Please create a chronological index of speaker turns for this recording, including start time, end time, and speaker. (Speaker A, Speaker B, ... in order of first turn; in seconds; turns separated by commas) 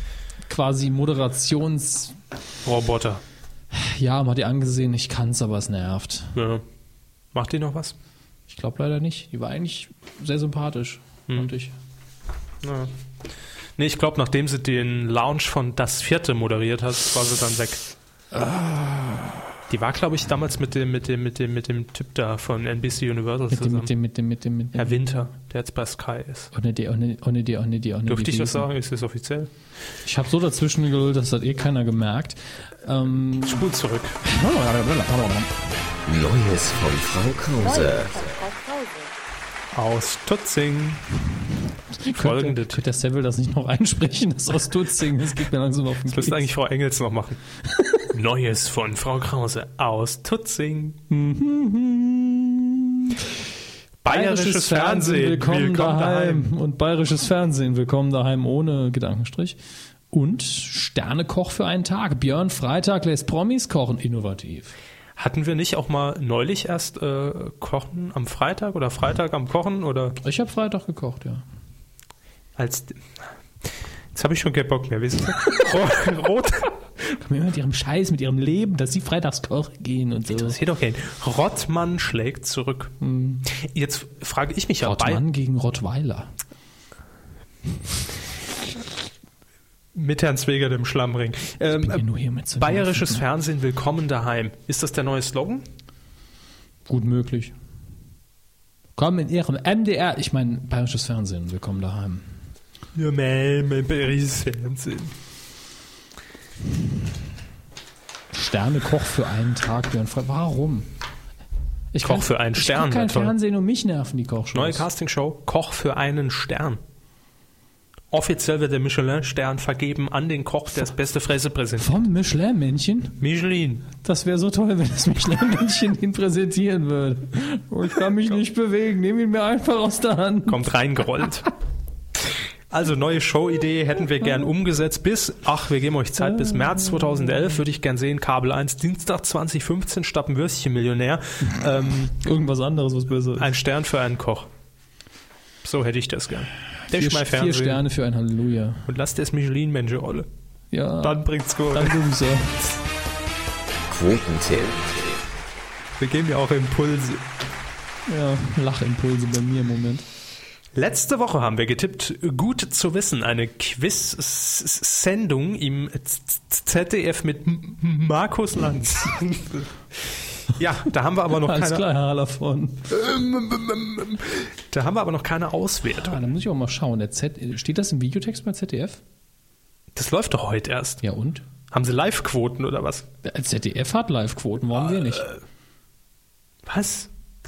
Speaker A: 0.5-2.2, Speaker B: 2.6-3.2, Speaker A: 3.7-6.4, Speaker B: 6.4-6.6, Speaker B: 7.3-7.9, Speaker A: 8.5-11.7, Speaker B: 12.6-12.9, Speaker B: 13.8-17.9, Speaker A: 18.3-19.4, Speaker B: 19.7-23.9, Speaker A: 23.5-25.2, Speaker B: 24.7-26.5, Speaker A: 26.5-28.7, Speaker B: 28.1-29.5, Speaker A: 30.1-35.5, Speaker B: 33.4-34.2, Speaker C: 36.1-38.6, Speaker B: 39.7-41.0, Speaker A: 42.0-46.5, Speaker B: 42.1-42.8, Speaker B: 46.1-47.4, Speaker A: 47.7-48.0, Speaker B: 48.1-51.0, Speaker A: 51.1-53.3, Speaker B: 54.0-56.5, Speaker A: 54.1-59.6, Speaker A: 60.1-64.7, Speaker B: 65.2-70.2, Speaker A: 70.2-71.4, Speaker B: 72.6-73.2, Speaker B: 74.1-76.7, Speaker A: 77.0-80.6, Speaker B: 80.3-83.0, Speaker A: 83.0-83.5, Speaker B: 83.5-85.2, Speaker A: 84.8-86.3, Speaker B: 90.0-92.0, Speaker A: 91.8-93.2, Speaker B: 92.6-95.7, Speaker A: 96.9-97.5, Speaker A: 99.0-102.4, Speaker B: 103.0-105.1, Speaker A: 108.3-110.9, Speaker A: 111.9-114.9, Speaker B: 112.0-113.3, Speaker B: 114.5-116.8, Speaker B: 118.1-121.9, Speaker A: 121.8-123.2, Speaker B: 123.2-123.9, Speaker A: 124.0-130.6, Speaker B: 130.5-131.5, Speaker B: 132.7-142.1, Speaker A: 136.2-137.5, Speaker A: 142.1-143.5, Speaker B: 143.4-144.5, Speaker B: 145.6-147.8, Speaker A: 146.9-148.9, Speaker B: 148.9-150.3, Speaker A: 150.7-152.8, Speaker B: 151.0-152.0, Speaker C: 153.9-155.2, Speaker B: 156.0-157.2, Speaker A: 158.1-160.1, Speaker B: 160.7-171.9, Speaker A: 171.3-172.9, Speaker B: 172.9-176.2, Speaker A: 175.9-179.0, Speaker B: 179.9-181.0, Speaker A: 181.0-181.4, Speaker B: 181.7-183.1, Speaker A: 183.2-185.3, Speaker B: 184.9-185.4, Speaker B: 186.7-187.1